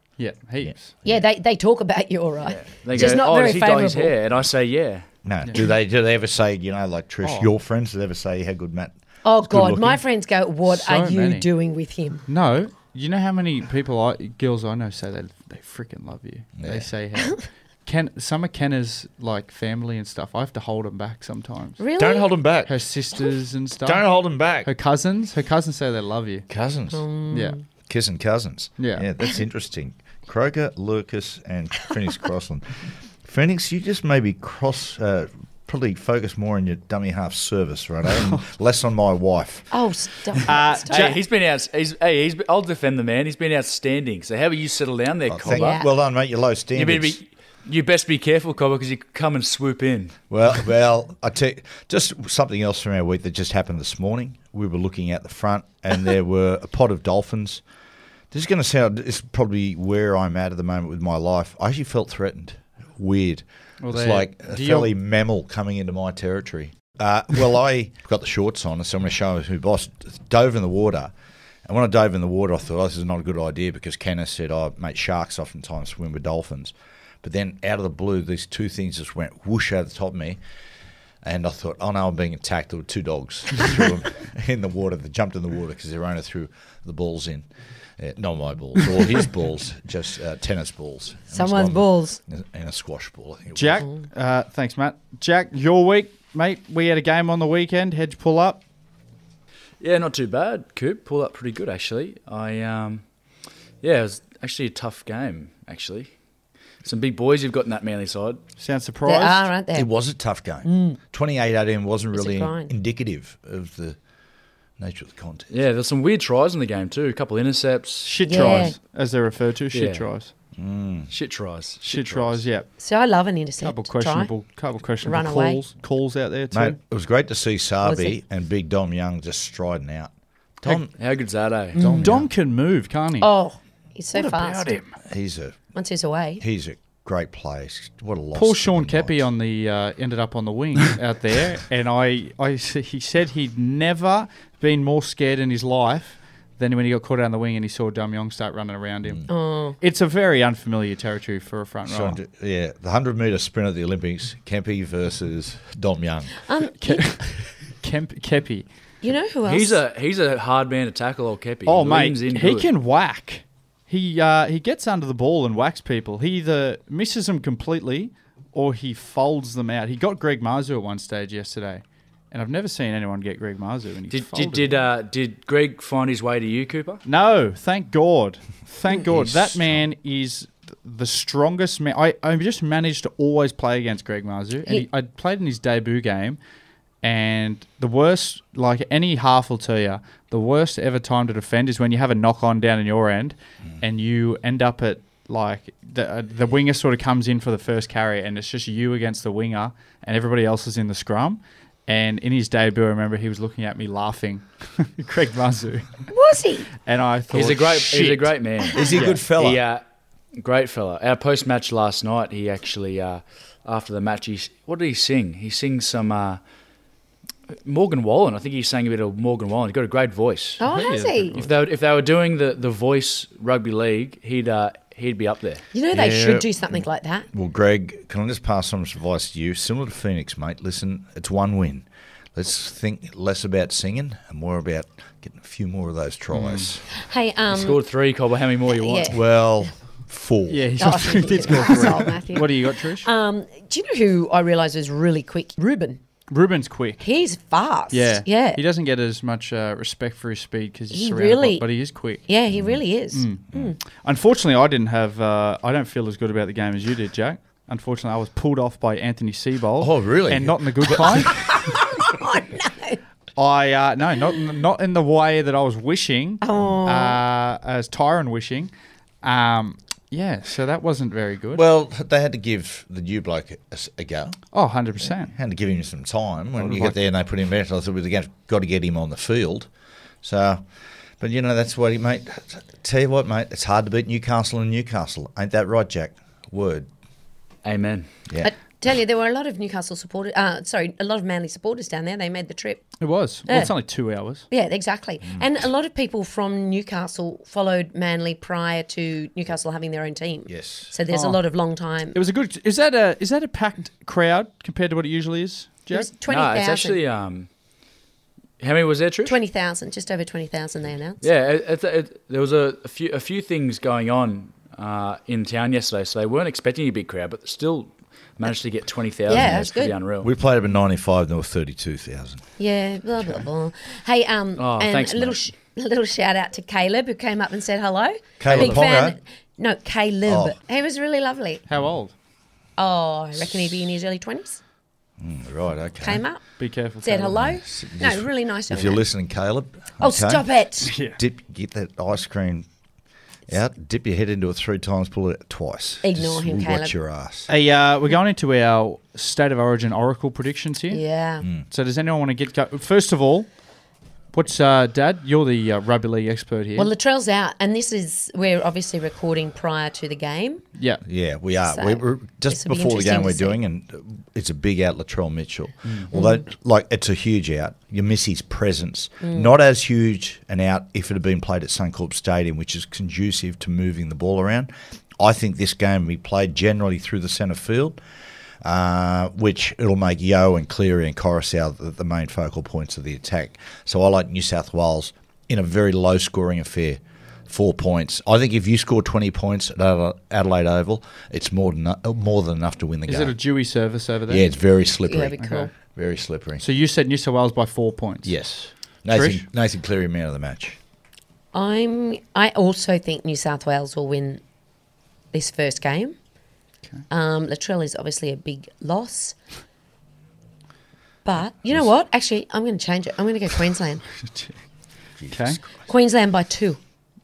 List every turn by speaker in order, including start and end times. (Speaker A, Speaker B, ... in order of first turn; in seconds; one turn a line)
Speaker A: 0.2-0.9
Speaker B: 0.6-1.2
Speaker C: 1.0-4.1
Speaker D: 2.5-5.0
Speaker B: 5.2-10.0
Speaker A: 7.2-7.5
Speaker C: 9.2-12.2
Speaker A: 10.7-11.5
Speaker A: 12.3-21.8
Speaker B: 16.6-16.9
Speaker C: 21.8-22.3
Speaker B: 22.0-22.7
Speaker A: 22.6-24.0
Speaker B: 23.8-24.7
Speaker A: 24.6-26.4
Speaker B: 26.5-27.0
Speaker C: 26.9-27.6
Speaker A: 27.3-27.6
Speaker B: 27.9-39.7
Speaker A: 28.8-29.0
Speaker C: 39.7-41.1
Speaker A: 40.5-41.2
Speaker D: 40.9-45.8
Speaker B: 45.3-47.2
Speaker C: 45.5-45.9
Speaker D: 46.7-50.2
Speaker B: 50.3-57.6
Speaker B: 58.3-71.1
Speaker A: 63.8-64.9
Speaker B: 71.6-80.4
Speaker B: 81.2-93.8
Speaker C: 91.3-92.2
Speaker A: 93.5-98.6
Speaker D: 99.8-103.0
Speaker D: 103.8-106.1
Speaker D: 106.8-108.4
Speaker A: 108.6-109.5
Speaker C: 109.0-109.9
Speaker B: 109.7-114.0
Speaker C: 110.6-111.0
Speaker C: 112.1-112.7
Speaker B: 114.8-115.5
Speaker D: 115.5-118.7
Speaker A: 118.0-120.3
Speaker C: 118.2-118.8
Speaker D: 119.7-120.0
Speaker B: 120.6-121.1
Speaker D: 121.1-122.4
Speaker A: 121.8-122.7
Speaker C: 122.8-124.3
Speaker A: 123.6-126.8
Speaker C: 125.0-125.6
Speaker B: 126.5-130.9
Speaker C: 127.8-128.2
Speaker D: 130.7-131.8
Speaker C: 131.7-132.1
Speaker B: 131.7-132.3
Speaker A: 132.0-133.3
Speaker C: 133.2-134.7
Speaker A: 134.1-134.9
Speaker B: 135.0-135.6
Speaker C: 135.7-136.4
Speaker B: 136.4-139.2
Speaker A: 138.3-152.2
Speaker C: 149.3-149.8
Speaker B: 151.8-156.4
Speaker C: 156.4-157.1
Speaker A: 156.8-158.7
Speaker C: 159.0-159.8
Speaker D: 159.4-162.7
Speaker A: 161.7-174.8
Speaker D: 174.1-177.0
Speaker A: 177.0-186.4
Speaker B: 179.1-179.8
Speaker A: 187.0-206.1
Speaker C: 206.1-206.7
Speaker A: 206.8-208.3
Speaker D: 207.3-209.8
Speaker B: 208.7-209.6
Speaker D: 210.4-216.4
Speaker D: 217.6-220.6
Speaker C: 220.6-221.4
Speaker A: 220.6-221.5
Speaker D: 221.3-225.6
Speaker C: 225.7-227.3
Speaker B: 225.9-226.5
Speaker B: 227.3-236.8
Speaker A: 236.3-236.7
Speaker C: 237.0-237.8
Speaker D: 237.5-239.2
Speaker C: 238.7-239.2
Speaker B: 239.1-241.8
Speaker A: 240.5-243.1
Speaker C: 240.8-246.0
Speaker A: 246.3-247.0
Speaker C: 247.0-248.6
Speaker A: 247.9-252.2
Speaker C: 250.9-251.7
Speaker C: 252.2-253.7
Speaker B: 252.5-252.8
Speaker A: 253.1-261.6
Speaker B: 259.8-261.3
Speaker C: 261.5-263.0
Speaker A: 263.4-268.7
Speaker C: 266.4-267.2
Speaker A: 269.2-271.6
Speaker B: 271.5-274.4
Speaker A: 274.5-275.3
Speaker B: 275.3-279.7
Speaker A: 276.6-277.0
Speaker B: 280.2-280.6
Speaker B: 281.2-286.9
Speaker D: 287.6-288.1
Speaker C: 288.4-293.0
Speaker A: 293.0-294.4
Speaker C: 293.5-293.7
Speaker C: 294.5-302.2
Speaker B: 300.5-300.9
Speaker A: 301.1-301.4
Speaker A: 302.1-306.1
Speaker C: 305.9-307.0
Speaker D: 306.3-307.5
Speaker D: 308.6-309.4
Speaker C: 309.2-311.2
Speaker D: 311.2-320.3
Speaker C: 319.3-319.9
Speaker B: 319.3-322.5
Speaker C: 322.6-331.6
Speaker D: 324.6-325.4
Speaker B: 328.4-329.2
Speaker A: 328.5-328.7
Speaker B: 330.2-330.6
Speaker A: 331.7-332.1
Speaker C: 332.8-334.6
Speaker B: 335.2-336.2
Speaker C: 336.0-336.4
Speaker A: 336.6-337.4
Speaker C: 337.0-339.0
Speaker B: 337.3-342.7
Speaker C: 340.0-340.9
Speaker A: 340.8-341.2
Speaker B: 343.5-347.5
Speaker C: 346.0-346.9
Speaker A: 347.5-351.0
Speaker C: 350.9-351.5
Speaker A: 351.7-353.5
Speaker A: 354.3-356.9
Speaker C: 356.8-360.6
Speaker A: 360.8-361.0
Speaker B: 361.0-378.0
Speaker C: 361.7-363.6
Speaker A: 365.8-366.1
Speaker C: 366.1-366.4
Speaker C: 369.2-369.5
Speaker B: 378.6-393.4
Speaker A: 393.1-394.5
Speaker B: 394.3-396.6
Speaker C: 395.1-395.7
Speaker A: 395.4-395.7
Speaker A: 396.6-398.3
Speaker B: 398.2-400.8
Speaker A: 399.1-399.4
Speaker C: 401.5-404.4
Speaker C: 405.3-406.1
Speaker C: 407.1-409.4
Speaker C: 411.2-414.0
Speaker B: 415.2-415.9
Speaker A: 415.3-415.6
Speaker C: 415.9-416.8